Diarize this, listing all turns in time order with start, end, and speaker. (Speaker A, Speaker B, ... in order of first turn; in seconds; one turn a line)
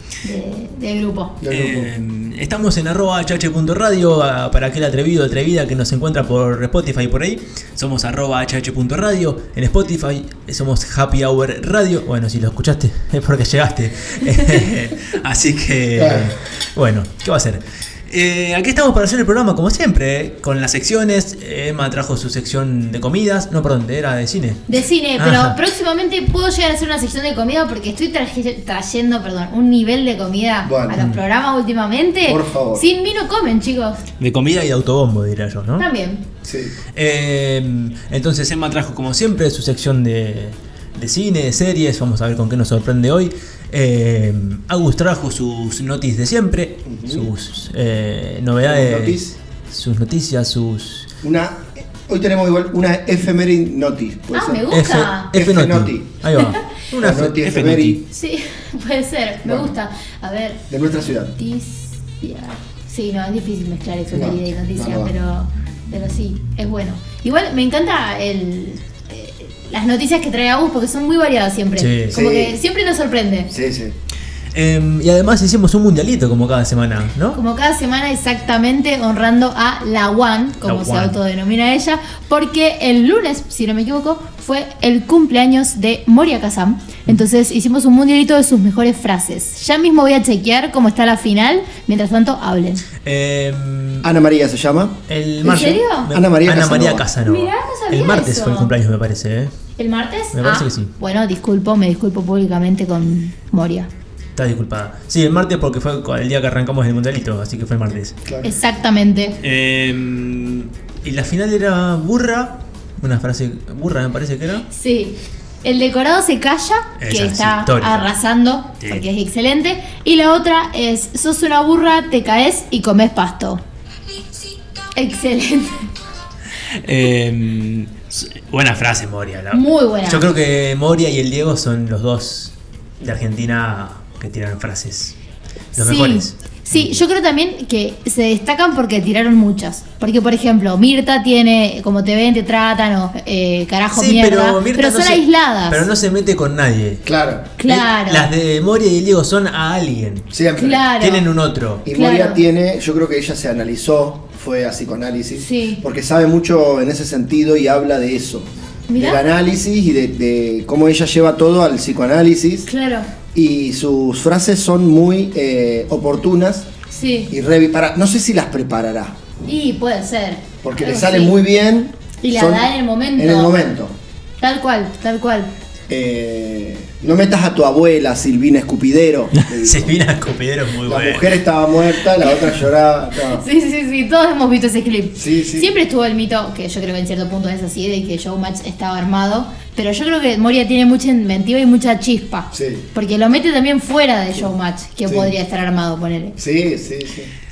Speaker A: 0.2-1.4
Speaker B: 1.4-1.9
Speaker C: 1.5-25.6
Speaker B: 16.0-16.3
Speaker A: 24.7-34.0
Speaker B: 30.6-31.0
Speaker C: 30.9-31.2
Speaker B: 32.3-32.9
Speaker C: 34.2-35.9
Speaker A: 35.8-36.2
Speaker B: 36.5-36.8
Speaker C: 37.0-51.1
Speaker B: 46.9-47.3
Speaker B: 48.7-49.4
Speaker B: 51.2-54.7
Speaker A: 54.3-55.3
Speaker C: 54.7-58.0
Speaker B: 55.3-56.1
Speaker B: 57.0-58.0
Speaker A: 58.1-60.6
Speaker B: 59.4-59.7
Speaker B: 60.7-61.3
Speaker A: 61.4-73.5
Speaker B: 64.1-65.1
Speaker C: 71.8-72.2
Speaker B: 72.1-72.6
Speaker B: 73.5-74.0
Speaker C: 74.5-77.4
Speaker A: 77.3-92.8
Speaker C: 80.6-81.2
Speaker C: 93.0-94.1
Speaker B: 94.0-97.0
Speaker C: 95.1-99.5
Speaker A: 95.4-96.1
Speaker A: 97.2-98.7
Speaker A: 99.8-103.9
Speaker C: 100.3-100.9
Speaker C: 104.4-108.2
Speaker B: 108.3-108.5
Speaker A: 108.4-109.4
Speaker C: 109.4-114.7
Speaker A: 114.7-123.6
Speaker C: 117.0-118.1
Speaker A: 124.9-125.9
Speaker C: 126.8-135.2
Speaker A: 129.5-130.3
Speaker C: 135.8-137.0
Speaker A: 135.8-145.8
Speaker C: 143.9-147.0
Speaker B: 147.1-147.5
Speaker A: 147.6-148.3
Speaker C: 147.6-150.3
Speaker B: 150.3-150.9
Speaker A: 150.6-151.3
Speaker C: 150.9-151.9
Speaker B: 151.8-162.7
Speaker A: 151.9-152.4
Speaker A: 155.4-155.8
Speaker A: 158.9-159.2
Speaker A: 162.7-163.1
Speaker B: 163.3-166.7
Speaker A: 166.9-167.3
Speaker B: 167.3-169.2
Speaker A: 169.4-171.4
Speaker B: 170.6-173.9
Speaker A: 172.2-173.6
Speaker A: 174.4-175.5
Speaker B: 175.9-180.0
Speaker C: 179.5-181.4
Speaker B: 180.8-183.4
Speaker A: 182.2-182.5
Speaker A: 183.3-196.4
Speaker B: 185.2-185.7
Speaker B: 192.5-192.9
Speaker B: 195.1-195.3
Speaker B: 196.4-197.3